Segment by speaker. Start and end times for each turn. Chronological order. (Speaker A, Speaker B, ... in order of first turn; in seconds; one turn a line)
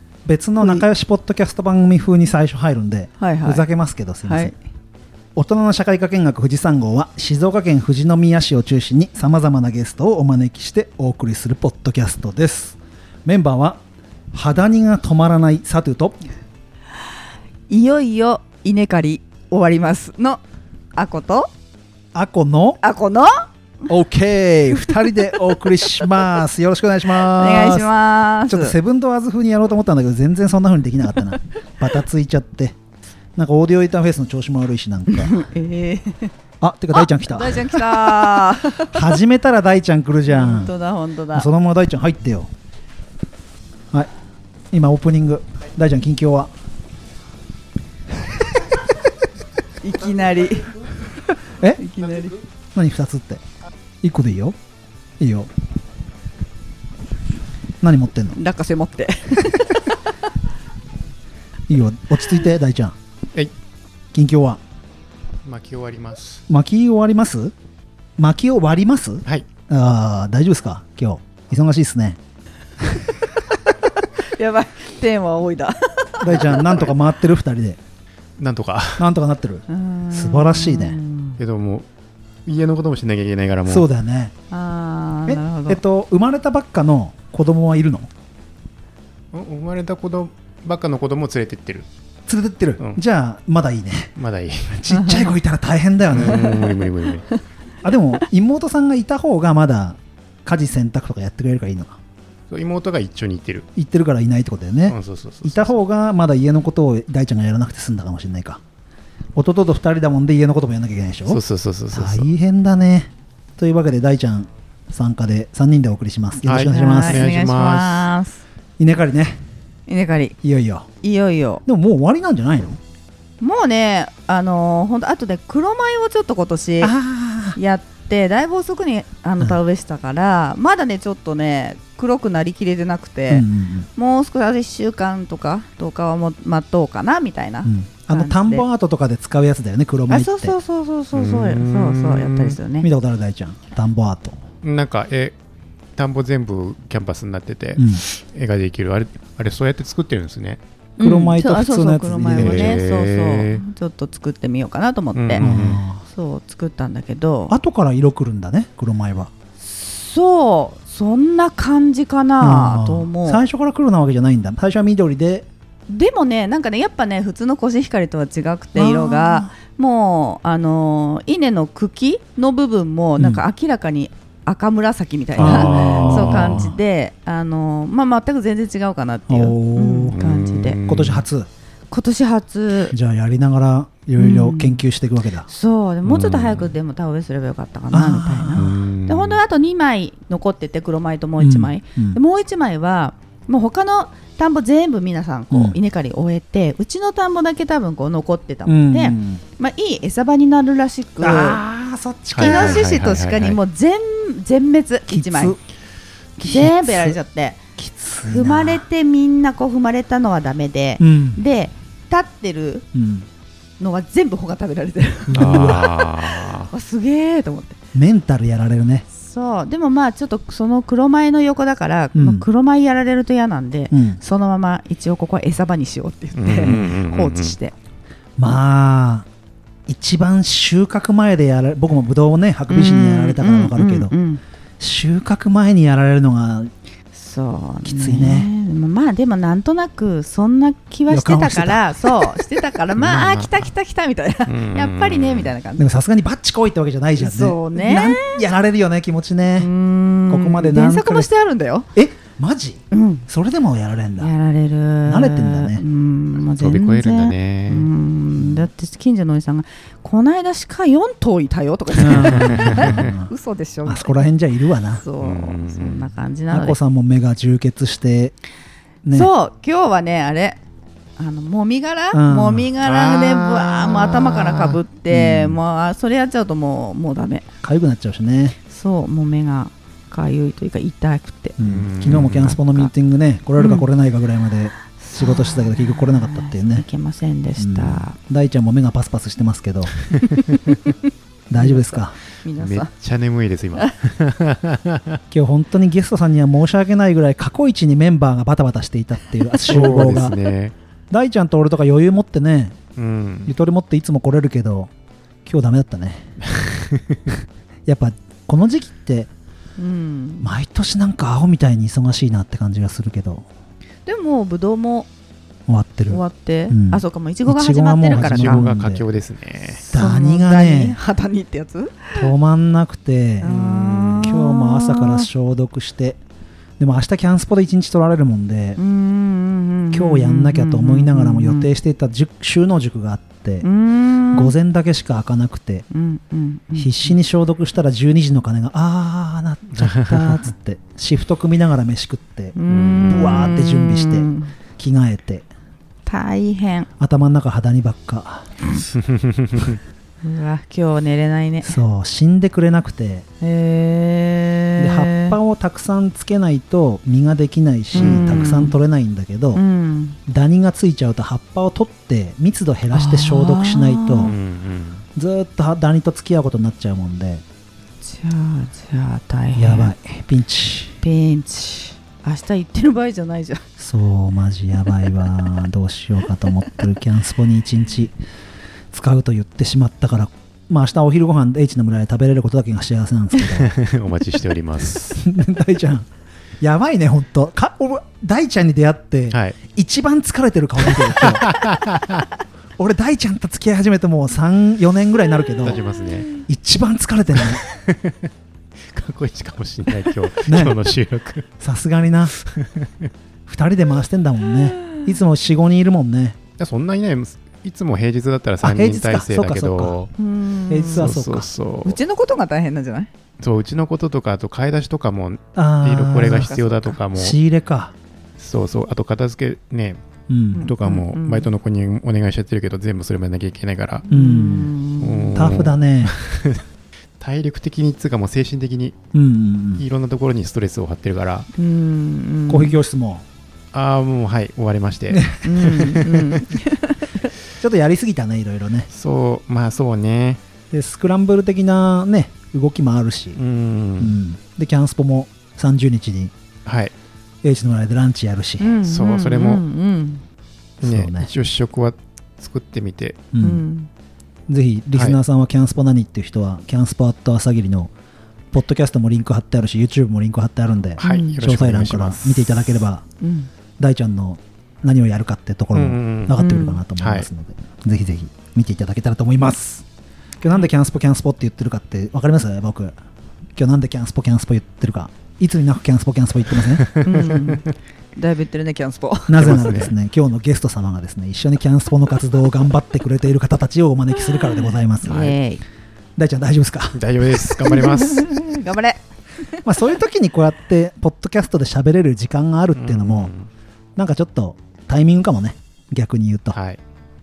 Speaker A: 0.2-4.5
Speaker B: 0.6-0.8
Speaker B: 3.2-3.7
Speaker B: 4.2-4.5
Speaker A: 5.3-13.8
Speaker A: 14.3-16.2
Speaker B: 17.7-20.4
Speaker B: 20.9-21.5
Speaker A: 22.1-22.8
Speaker B: 22.8-23.5
Speaker A: 23.9-27.9
Speaker B: 27.1-28.7
Speaker A: 28.5-32.8
Speaker A: 33.4-35.5
Speaker B: 35.1-36.3
Speaker A: 36.6-40.7
Speaker B: 36.9-39.1
Speaker B: 40.3-41.5
Speaker A: 41.3-42.5
Speaker A: 44.7-46.5
Speaker B: 49.8-52.4
Speaker A: 52.7-53.4
Speaker A: 54.0-54.6
Speaker A: 55.2-55.5
Speaker A: 57.8-58.4
Speaker B: 58.3-60.1
Speaker A: 61.7-63.0
Speaker A: 64.1-64.6
Speaker C: 65.4-66.4
Speaker A: 66.5-67.5
Speaker A: 68.2-72.2
Speaker A: 72.8-73.1
Speaker B: 74.0-76.9
Speaker A: 76.2-77.8
Speaker C: 78.4-79.1
Speaker A: 79.0-81.0
Speaker B: 79.7-81.4
Speaker C: 81.4-81.9
Speaker C: 82.5-83.9
Speaker A: 83.6-84.3
Speaker B: 84.5-85.8
Speaker A: 85.2-88.1
Speaker C: 89.3-91.9
Speaker A: 92.3-94.1
Speaker C: 94.2-94.8
Speaker A: 94.7-96.7
Speaker B: 94.9-95.3
Speaker C: 96.1-97.3
Speaker B: 96.3-96.8
Speaker A: 97.8-102.0
Speaker C: 102.5-103.7
Speaker A: 103.7-108.6
Speaker C: 104.9-105.7
Speaker A: 109.3-117.3
Speaker C: 111.3-112.3
Speaker C: 116.4-118.1
Speaker B: 116.6-118.4
Speaker A: 118.8-119.4
Speaker B: 119.9-120.3
Speaker A: 120.4-120.9
Speaker B: 121.0-121.6
Speaker A: 121.7-122.8
Speaker B: 123.4-126.9
Speaker A: 126.8-127.6
Speaker B: 127.5-138.7
Speaker A: 133.3-133.9
Speaker A: 137.6-140.5
Speaker B: 140.1-142.9
Speaker C: 141.1-142.6
Speaker A: 142.8-144.4
Speaker C: 144.6-145.4
Speaker C: 145.9-150.6
Speaker A: 147.8-148.0
Speaker B: 151.0-155.5
Speaker A: 151.0-152.8
Speaker C: 152.3-153.6
Speaker C: 155.1-155.8
Speaker A: 155.4-156.0
Speaker B: 156.0-157.6
Speaker A: 157.5-159.3
Speaker B: 159.6-163.4
Speaker A: 162.4-165.5
Speaker B: 165.9-180.8
Speaker A: 168.7-169.5
Speaker A: 173.2-173.4
Speaker A: 175.4-176.7
Speaker C: 175.4-176.7
Speaker A: 179.3-180.1
Speaker C: 180.1-181.2
Speaker A: 180.8-181.5
Speaker B: 181.9-182.9
Speaker A: 182.9-185.5
Speaker B: 184.2-184.8
Speaker B: 185.5-201.6
Speaker C: 186.0-186.7
Speaker A: 187.9-188.8
Speaker C: 188.5-189.4
Speaker A: 191.4-192.2
Speaker A: 195.5-195.8
Speaker A: 198.7-199.4
Speaker A: 201.2-203.0
Speaker C: 202.3-203.6
Speaker B: 202.4-205.6
Speaker A: 205.1-205.6
Speaker A: 206.4-207.2
Speaker B: 206.4-207.6
Speaker A: 207.8-208.8
Speaker B: 208.2-212.8
Speaker A: 211.0-211.4
Speaker A: 212.9-213.3
Speaker B: 213.8-217.8
Speaker A: 215.3-215.9
Speaker C: 215.3-216.7
Speaker A: 217.9-219.1
Speaker B: 219.1-227.7
Speaker A: 222.1-222.4
Speaker A: 223.9-224.2
Speaker C: 226.3-227.6
Speaker A: 226.6-226.9
Speaker A: 228.4-229.3
Speaker A: 229.9-234.1
Speaker B: 232.7-234.4
Speaker A: 234.8-236.7
Speaker B: 237.1-245.9
Speaker A: 237.8-238.5
Speaker A: 241.1-243.3
Speaker C: 243.0-243.7
Speaker C: 244.4-245.5
Speaker A: 245.8-249.7
Speaker B: 247.2-248.4
Speaker B: 249.6-251.9
Speaker A: 250.3-251.3
Speaker A: 251.9-254.3
Speaker B: 252.9-253.2
Speaker B: 254.2-264.2
Speaker A: 255.1-255.8
Speaker C: 256.4-257.9
Speaker A: 258.4-258.7
Speaker A: 262.0-263.3
Speaker C: 262.0-263.1
Speaker A: 263.8-265.0
Speaker B: 264.9-266.8
Speaker C: 265.2-266.1
Speaker A: 266.5-268.3
Speaker A: 269.0-269.3
Speaker B: 269.1-270.6
Speaker B: 271.2-277.5
Speaker A: 272.1-272.7
Speaker C: 272.8-274.8
Speaker A: 275.1-275.6
Speaker A: 277.6-278.6
Speaker B: 278.7-281.6
Speaker A: 281.6-286.9
Speaker C: 281.6-282.6
Speaker B: 283.6-283.9
Speaker B: 284.9-288.2
Speaker A: 287.6-289.9
Speaker A: 291.5-292.1
Speaker B: 291.6-292.9
Speaker C: 292.5-295.2
Speaker A: 295.3-300.4
Speaker C: 299.6-300.7
Speaker A: 301.1-302.8
Speaker C: 302.9-303.5
Speaker A: 303.4-304.9
Speaker A: 305.4-306.3
Speaker C: 306.5-307.2
Speaker A: 307.9-309.3
Speaker B: 309.8-310.5
Speaker A: 310.4-313.5
Speaker B: 314.1-315.1
Speaker A: 315.7-319.0
Speaker B: 316.1-318.7
Speaker C: 318.1-319.8
Speaker B: 319.7-322.3
Speaker A: 319.9-321.0
Speaker A: 322.1-323.6
Speaker B: 323.4-325.3
Speaker C: 323.5-324.3
Speaker A: 324.2-326.2
Speaker A: 326.8-328.8
Speaker B: 328.8-331.7
Speaker A: 329.9-333.7
Speaker B: 333.6-334.5
Speaker A: 334.3-335.9
Speaker B: 335.9-337.1
Speaker A: 336.8-345.5
Speaker C: 339.8-340.4
Speaker B: 342.5-344.5
Speaker C: 342.7-343.3
Speaker B: 346.1-346.9
Speaker A: 347.0-348.5
Speaker C: 349.1-349.8
Speaker B: 350.2-351.8
Speaker A: 351.6-353.2
Speaker B: 353.4-355.4
Speaker A: 354.8-359.6
Speaker B: 357.9-358.8
Speaker C: 358.0-358.3
Speaker B: 359.5-360.2
Speaker A: 360.3-364.4
Speaker B: 362.9-364.3
Speaker C: 364.2-365.0
Speaker A: 365.1-367.4
Speaker B: 368.0-369.9
Speaker A: 369.5-371.0
Speaker B: 371.0-373.6
Speaker A: 373.8-378.1
Speaker A: 378.9-383.7
Speaker C: 383.5-385.2
Speaker A: 385.1-386.1
Speaker A: 386.6-391.6
Speaker C: 389.3-389.6
Speaker C: 390.9-392.2
Speaker A: 392.8-395.8
Speaker C: 395.6-396.4
Speaker A: 396.4-397.6
Speaker C: 397.4-398.3
Speaker C: 398.9-401.4
Speaker A: 400.4-400.8
Speaker A: 401.6-402.3
Speaker C: 402.4-403.1
Speaker A: 403.5-406.4
Speaker C: 406.6-410.1
Speaker A: 408.6-410.0
Speaker B: 410.2-411.1
Speaker A: 410.7-411.5
Speaker C: 410.9-412.0
Speaker B: 411.8-413.1
Speaker C: 413.4-417.4
Speaker A: 415.5-417.9
Speaker C: 418.4-420.0
Speaker A: 420.3-420.7
Speaker B: 420.5-421.5
Speaker C: 420.6-424.1
Speaker B: 424.1-425.5
Speaker A: 424.1-424.7
Speaker C: 425.0-426.6
Speaker A: 425.3-426.1
Speaker C: 427.2-429.0
Speaker A: 429.1-429.8
Speaker C: 429.8-431.5
Speaker B: 431.6-432.8
Speaker A: 432.5-433.2
Speaker C: 433.7-436.4
Speaker A: 435.1-435.4
Speaker B: 435.4-437.3
Speaker A: 437.6-438.9
Speaker C: 438.9-440.4
Speaker A: 440.7-443.4
Speaker C: 443.3-444.1
Speaker A: 444.0-446.3
Speaker C: 446.6-446.9
Speaker A: 447.4-448.8
Speaker B: 448.6-450.2
Speaker C: 448.8-449.6
Speaker A: 450.8-451.3
Speaker C: 450.8-453.2
Speaker A: 453.3-453.6
Speaker B: 453.4-453.9
Speaker A: 454.5-457.9
Speaker A: 458.5-463.0
Speaker B: 461.0-461.4
Speaker C: 461.0-462.5
Speaker B: 463.2-463.5
Speaker A: 463.8-469.9
Speaker C: 465.7-467.3
Speaker B: 466.3-466.8
Speaker A: 470.4-473.0
Speaker A: 473.6-476.9
Speaker C: 476.6-477.7
Speaker B: 477.0-479.5
Speaker A: 479.3-485.3
Speaker C: 479.4-479.9
Speaker B: 485.0-485.6
Speaker C: 485.1-485.3
Speaker A: 486.2-487.8
Speaker C: 486.9-488.4
Speaker B: 487.6-489.8
Speaker A: 489.6-493.3
Speaker C: 492.7-493.5
Speaker A: 493.9-496.6
Speaker C: 496.5-496.8